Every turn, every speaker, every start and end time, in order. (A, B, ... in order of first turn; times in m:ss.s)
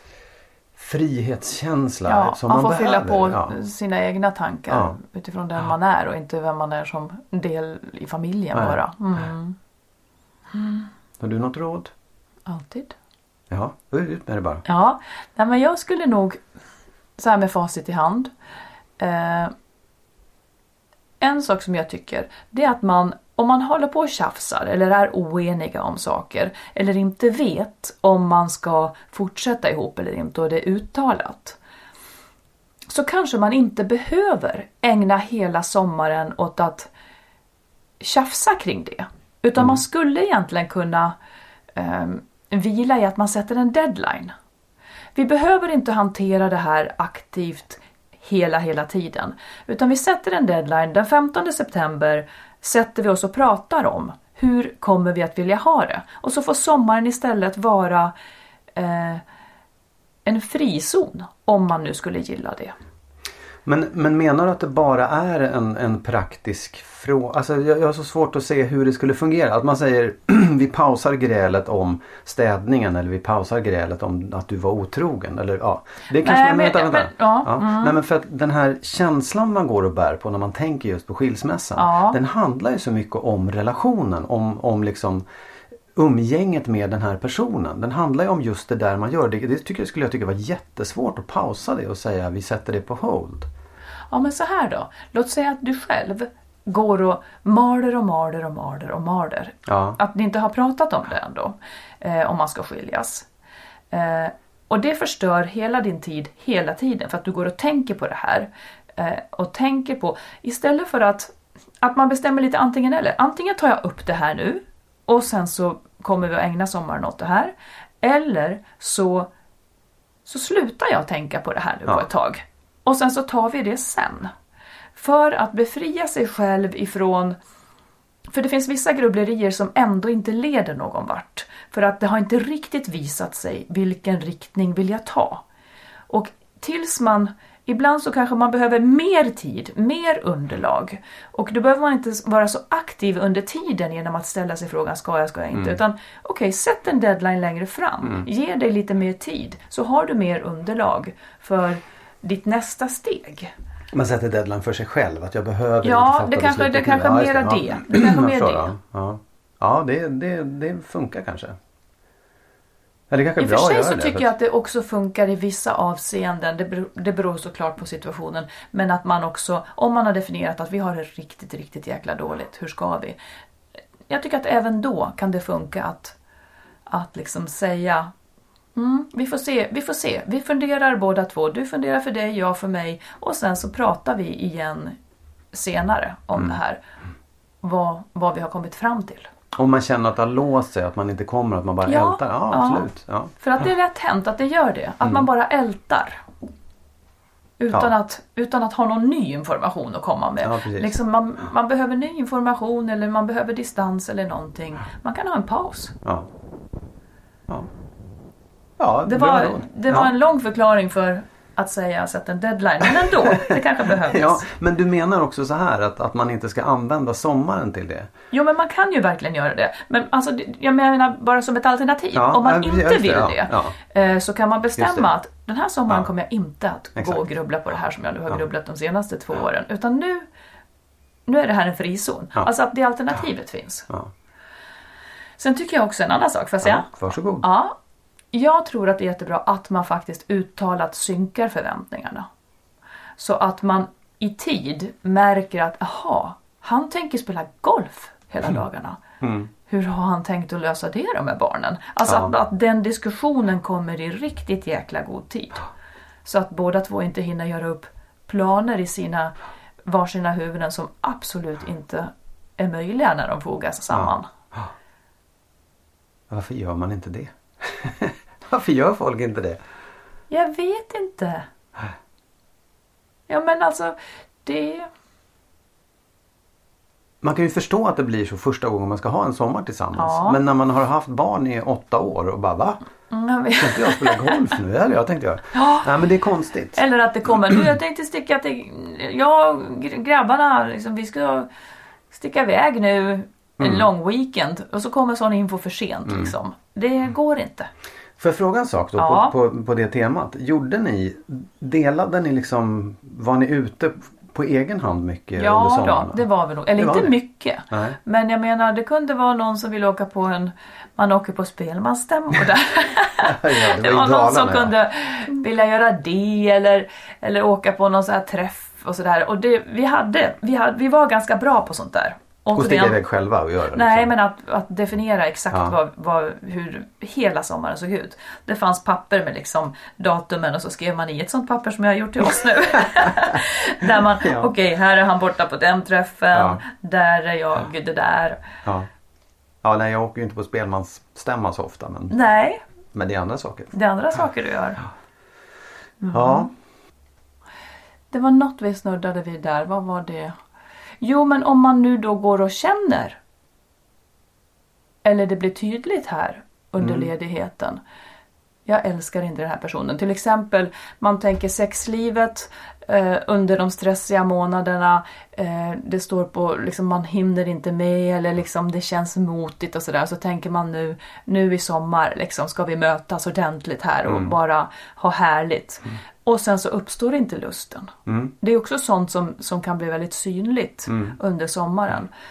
0:00.8-0:03.6 A
0:02.1-0:09.6 B
0:04.7-0:05.0 A
0:08.5-0:08.8 A
0:10.5-0:10.9 B
0:11.2-0:11.9 A
0:12.4-0:13.0 B
0:13.5-0:14.6 A
0:14.6-0:16.4 B
0:17.2-0:18.3 B
0:19.0-0:19.5 B
0:21.2-0:31.6 B
0:32.9-0:36.9 B
0:38.0-0:41.2 B
0:41.7-0:44.3 B
0:45.1-0:58.1 B
0:58.8-0:59.2 B
1:00.2-1:02.7 B
1:03.6-1:25.2 A
1:16.2-1:18.0 B
1:21.8-1:22.2 B
1:25.9-1:33.5 A
1:34.1-1:43.3 B
1:39.7-1:40.0 A
1:43.9-1:59.3 B
2:00.2-2:04.3 B
2:05.0-2:07.4 B
2:08.3-2:15.4 B
2:16.1-2:33.5 B
2:25.5-2:25.8 A
2:33.9-2:41.6 A
2:35.8-2:38.7 B
2:43.1-2:44.3 A
2:43.4-2:53.2 B
2:54.1-2:56.2 B
2:56.9-2:58.1 B
2:58.8-3:05.0 B
3:05.5-3:06.8 B
3:07.6-3:09.3 B
3:09.5-3:13.3 A
3:11.8-3:16.2 B
3:17.6-3:25.9 B
3:20.4-3:20.9 A
3:26.0-3:26.3 A
3:28.8-3:30.1 A
3:29.0-3:34.4 B
3:32.9-3:38.1 A
3:38.3-3:50.2 B
3:42.1-3:43.8 A
3:44.8-3:45.1 A
3:46.9-3:47.2 A
3:51.3-3:53.9 B
3:55.4-3:57.7 B
3:56.6-3:57.5 A
3:58.3-4:02.3 B
4:03.2-4:09.0 B
4:09.2-4:09.5 A
4:09.7-4:15.7 B
4:12.0-4:12.3 A
4:16.2-4:24.3 B
4:23.9-4:24.7 A
4:26.3-4:29.6 A
4:30.3-4:31.5 B
4:33.3-4:34.9 B
4:37.2-4:42.8 A
4:39.9-4:40.4 B
4:43.1-4:44.4 B
4:43.6-4:46.8 A
4:45.5-4:45.9 B
4:46.7-4:51.5 B
4:52.1-4:57.7 B
4:53.6-4:53.9 A
4:56.0-4:56.3 A
4:58.2-5:06.2 A
4:59.0-4:59.4 B
5:05.4-5:23.0 B
5:06.8-5:07.1 A
5:07.7-5:08.0 A
5:13.2-5:14.7 A
5:22.5-5:24.1 A
5:23.7-5:38.4 B
5:25.5-5:25.8 A
5:32.8-5:33.3 A
5:34.0-5:34.5 A
5:36.3-5:36.6 A
5:38.6-5:38.9 A
5:39.6-5:42.1 A
5:42.1-5:42.6 B
5:42.9-5:43.7 A
5:43.7-5:44.8 B
5:46.0-5:46.5 B
5:46.1-5:46.5 A
5:48.1-5:50.4 B
5:51.0-5:53.2 B
5:55.0-5:57.8 B
5:56.8-5:57.1 A
5:58.6-6:22.1 B
6:14.0-6:14.3 A
6:18.0-6:18.3 A
6:20.9-6:21.2 A